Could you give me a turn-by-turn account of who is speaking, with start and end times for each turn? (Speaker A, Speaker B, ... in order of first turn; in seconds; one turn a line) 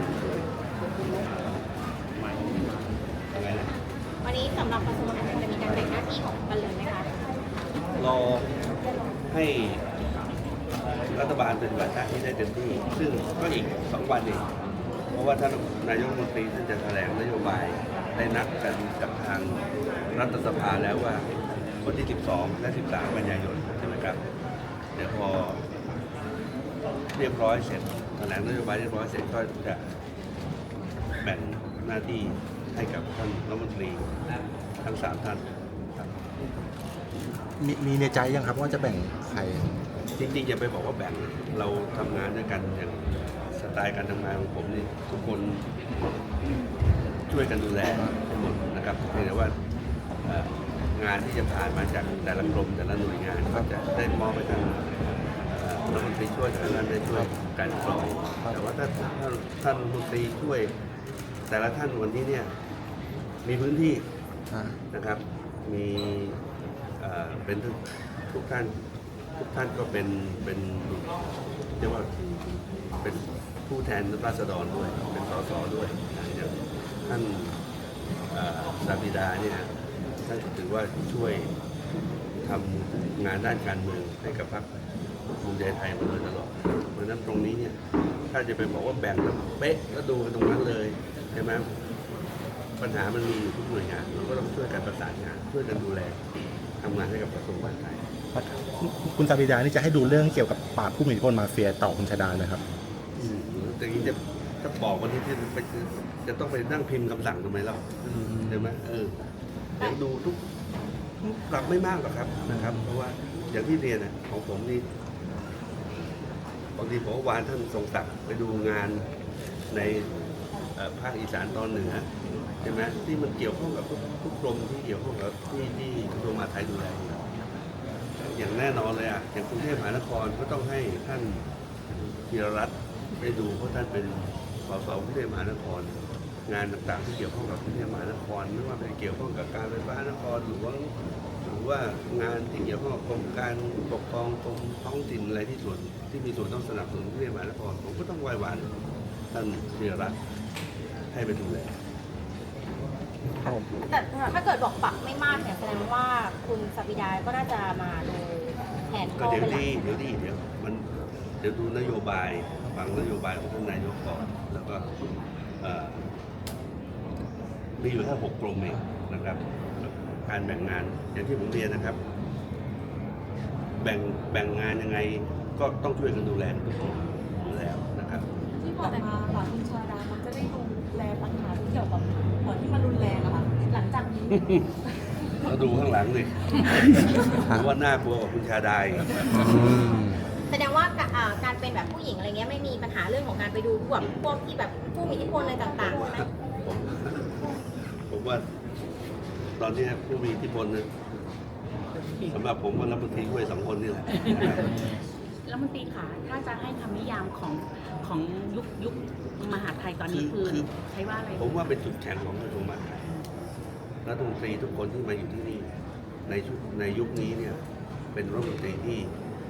Speaker A: 3.3-3.7
Speaker B: 4.2-7.1
Speaker A: 8.0-8.5
Speaker A: 9.3-9.8
Speaker A: 11.1-14.4
Speaker A: 15.1-21.2
Speaker A: 21.8-24.2
Speaker A: 24.9-25.6
Speaker A: 27.1-29.9
Speaker A: 31.2-34.1
Speaker A: 34.8-36.2
Speaker C: 37.6-39.7
Speaker A: 40.2-45.6
Speaker A: 47.3-49.5
Speaker A: 50.2-54.8
Speaker A: 55.5-60.7
Speaker A: 61.5-62.5
Speaker A: 63.4-64.0
Speaker C: 64.5-64.8
Speaker A: 64.9-66.4
Speaker A: 67.0-68.7
Speaker A: 69.4-71.1
Speaker A: 71.8-72.1
Speaker A: 72.9-77.6
Speaker A: 78.3-79.7
Speaker A: 80.2-81.5
Speaker A: 82.4-84.8
Speaker A: 85.4-87.8
Speaker A: 88.3-91.7
Speaker A: 92.8-96.2
Speaker A: 96.8-98.0
Speaker C: 98.3-102.6
Speaker A: 103.2-109.1
Speaker C: 108.1-108.7
Speaker A: 109.8-110.4
Speaker A: 111.2-114.8
Speaker A: 116.7-119.1
Speaker A: 119.7-120.1
Speaker A: 120.7-122.0
Speaker A: 122.6-127.2
Speaker A: 128.3-131.4
Speaker A: 132.1-140.9
Speaker A: 141.4-148.7
Speaker A: 149.3-150.2
Speaker A: 151.1-151.7
Speaker C: 153.4-153.7
Speaker B: 153.9-160.0
Speaker A: 159.1-160.9
Speaker A: 161.4-164.9
Speaker A: 165.6-166.0
Speaker A: 167.8-172.0
Speaker A: 173.8-178.3
Speaker D: 178.6-184.7
Speaker A: 185.4-189.5
Speaker C: 189.3-190.2
Speaker B: 190.5-196.3
Speaker A: 195.8-197.3
Speaker A: 198.1-198.4
Speaker A: 199.6-200.9
Speaker A: 202.3-204.7
Speaker E: 204.2-204.8
Speaker E: 205.4-211.6
Speaker A: 210.0-210.7
Speaker A: 211.3-213.1
Speaker A: 214.0-215.7
Speaker A: 216.3-217.6
Speaker A: 218.1-219.1